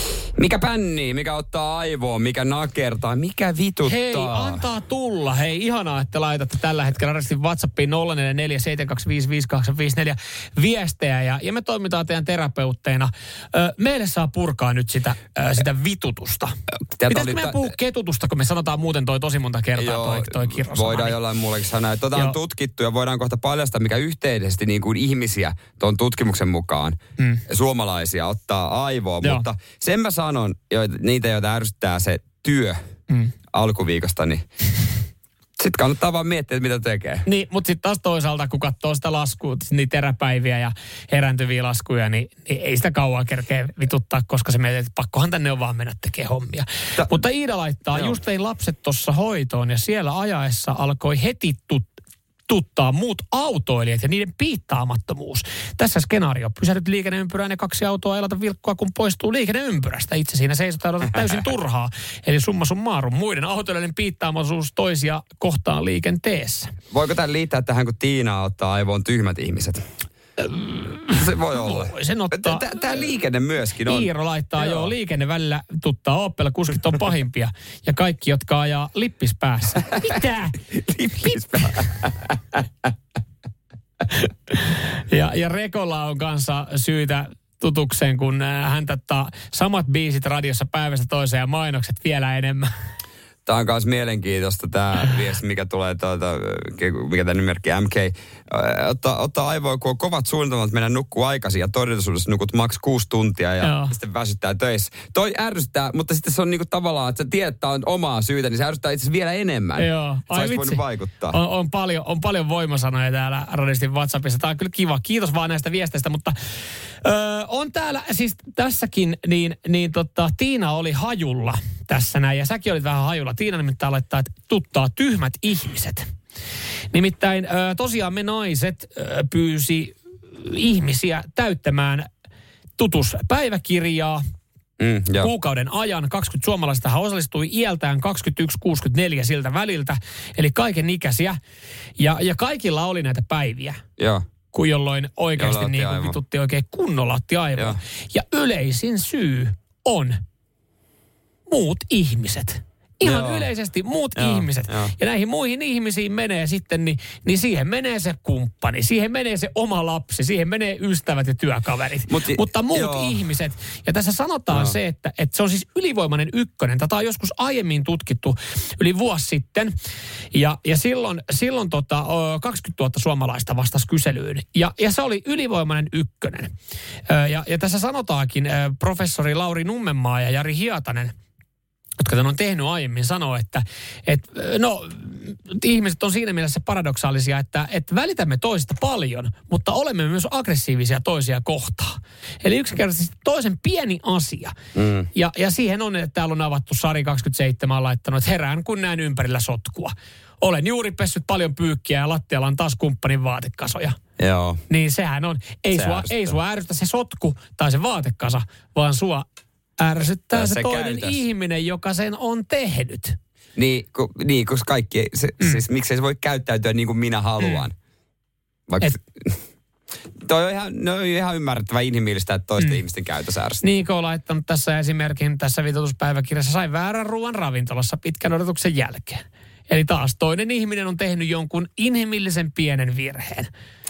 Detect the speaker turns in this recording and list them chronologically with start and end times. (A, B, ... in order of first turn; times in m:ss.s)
0:00.4-0:04.6 A
0:03.8-0:16.6 B
0:17.0-0:17.6 A
0:17.1-0:21.2 B
0:19.8-0:32.8 A
0:27.2-0:27.4 B
0:33.5-0:34.4 A
0:35.6-0:37.2 A
0:37.2-0:51.9 B
0:47.9-0:48.2 A
0:52.5-1:06.7 B
1:06.9-1:09.8 A
1:10.4-1:12.9 B
1:11.1-1:14.9 A
1:13.8-1:20.7 B
1:20.7-1:22.3 A
1:21.2-1:21.9 B
1:24.1-1:32.7 B
1:33.4-1:51.4 A
1:43.6-1:43.9 B
1:49.8-1:56.4 B
1:57.0-2:06.1 B
2:06.9-2:12.1 B
2:12.8-2:14.2 B
2:14.8-2:15.3 A
2:15.2-2:21.4 B
2:22.0-2:23.8 B
2:24.0-2:24.2 A
2:24.5-2:30.2 B
2:25.4-2:26.2 A
2:31.5-2:49.7 B
2:33.0-2:33.5 A
2:34.2-2:34.9 A
2:42.1-2:43.2 A
2:44.5-2:44.8 A
2:50.3-2:56.5 B
2:57.1-3:01.1 B
3:02.0-3:14.5 B
3:14.7-3:15.1 A
3:15.1-3:24.0 B
3:24.2-3:24.6 A
3:24.7-3:29.2 B
3:25.7-3:26.4 A
3:29.8-3:33.2 B
3:30.3-3:31.2 A
3:33.6-3:37.7 A
3:37.4-3:37.6 B
3:38.7-3:39.4 A
3:40.2-3:43.6 A
3:43.6-3:53.5 B